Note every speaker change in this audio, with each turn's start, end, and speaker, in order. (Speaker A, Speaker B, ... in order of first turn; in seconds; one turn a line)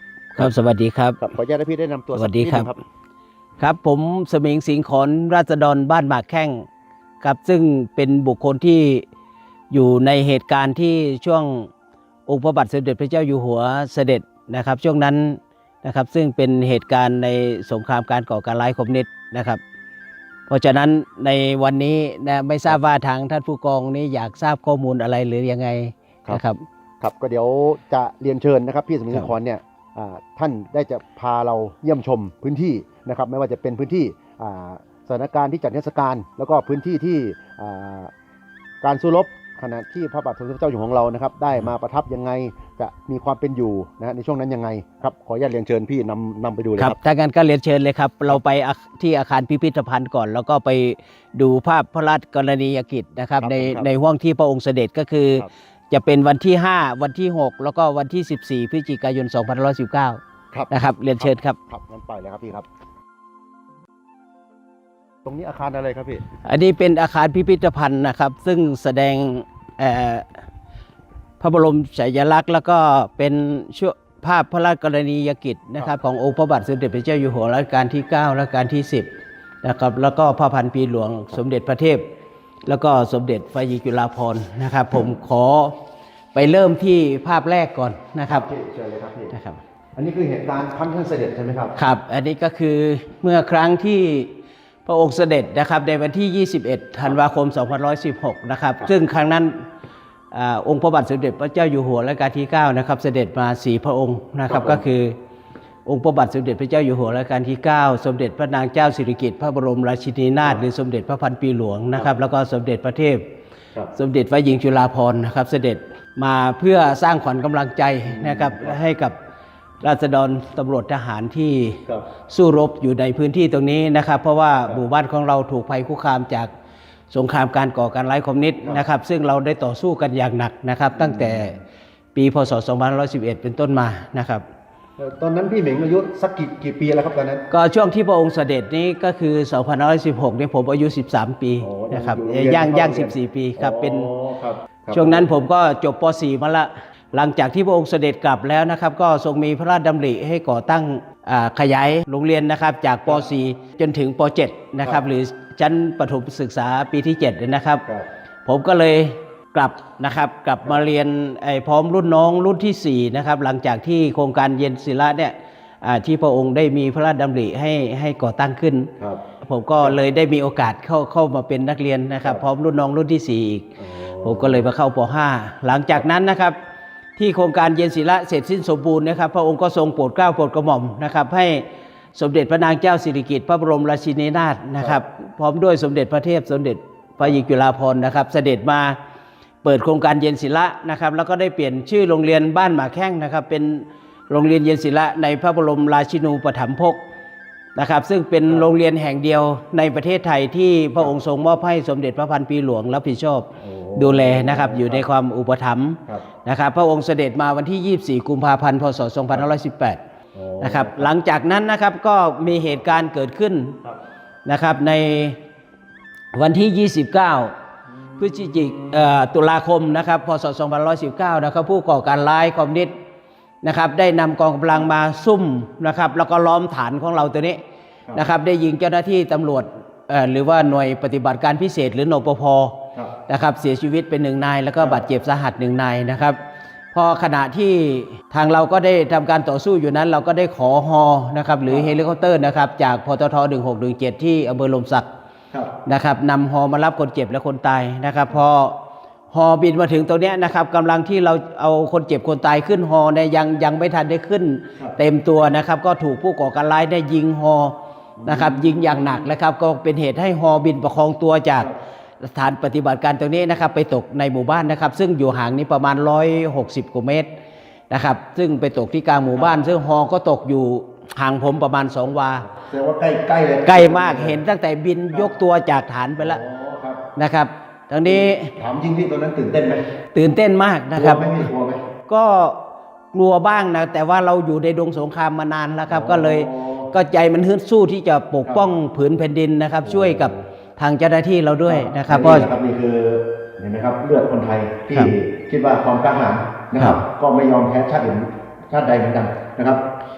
Speaker A: 0.3-1.2
Speaker B: 1.2-2.8
Speaker A: 2.1-2.7
Speaker A: 3.6-6.7
Speaker A: 7.2-9.1
Speaker A: 9.7-11.7
Speaker A: 12.3-19.6
Speaker A: 20.5-26.6
Speaker B: 27.0-38.1
Speaker B: 38.8-47.0
Speaker A: 46.8-61.6
Speaker B: 53.4-53.9
Speaker B: 60.5-62.7
Speaker B: 65.2-66.2
Speaker A: 66.4-70.4
Speaker A: 71.4-79.1
Speaker A: 79.6-82.1
Speaker A: 82.7-85.8
Speaker A: 86.3-88.5
Speaker B: 88.2-89.3
Speaker A: 89.3-89.6
Speaker B: 90.0-91.7
Speaker A: 91.8-94.3
Speaker A: 94.8-99.6
Speaker A: 100.3-105.2
Speaker B: 104.5-104.8
Speaker A: 105.8-113.3
Speaker A: 113.9-119.2
Speaker B: 118.0-118.8
Speaker A: 119.8-126.5
Speaker A: 127.1-131.6
Speaker B: 130.9-131.4
Speaker A: 132.1-134.4
Speaker B: 135.0-137.5
Speaker A: 137.5-144.1
Speaker B: 141.6-145.3
Speaker A: 144.9-157.8
Speaker A: 158.4-168.9
Speaker A: 169.4-176.6
Speaker B: 173.8-174.6
Speaker A: 177.2-189.0
Speaker A: 189.6-197.0
Speaker A: 197.8-210.0
Speaker B: 203.6-205.0
Speaker B: 210.3-211.1
Speaker A: 210.6-213.8
Speaker A: 214.4-215.4
Speaker A: 216.3-217.5
Speaker B: 217.9-219.1
Speaker A: 218.2-222.9
Speaker A: 223.6-227.6
Speaker A: 228.1-236.4
Speaker A: 236.9-245.1
Speaker B: 241.7-241.9
Speaker A: 245.8-248.8
Speaker A: 249.3-261.7
Speaker B: 258.2-259.2
Speaker A: 262.2-267.3
Speaker A: 267.9-272.5
Speaker B: 272.5-274.4
Speaker A: 273.6-276.4
Speaker B: 276.2-277.0
Speaker A: 277.1-278.5
Speaker B: 278.1-279.8
Speaker A: 280.1-281.5
Speaker B: 280.9-281.8
Speaker A: 282.1-282.6
Speaker A: 283.1-292.5
Speaker B: 285.9-286.9
Speaker B: 289.8-290.4
Speaker B: 291.7-299.8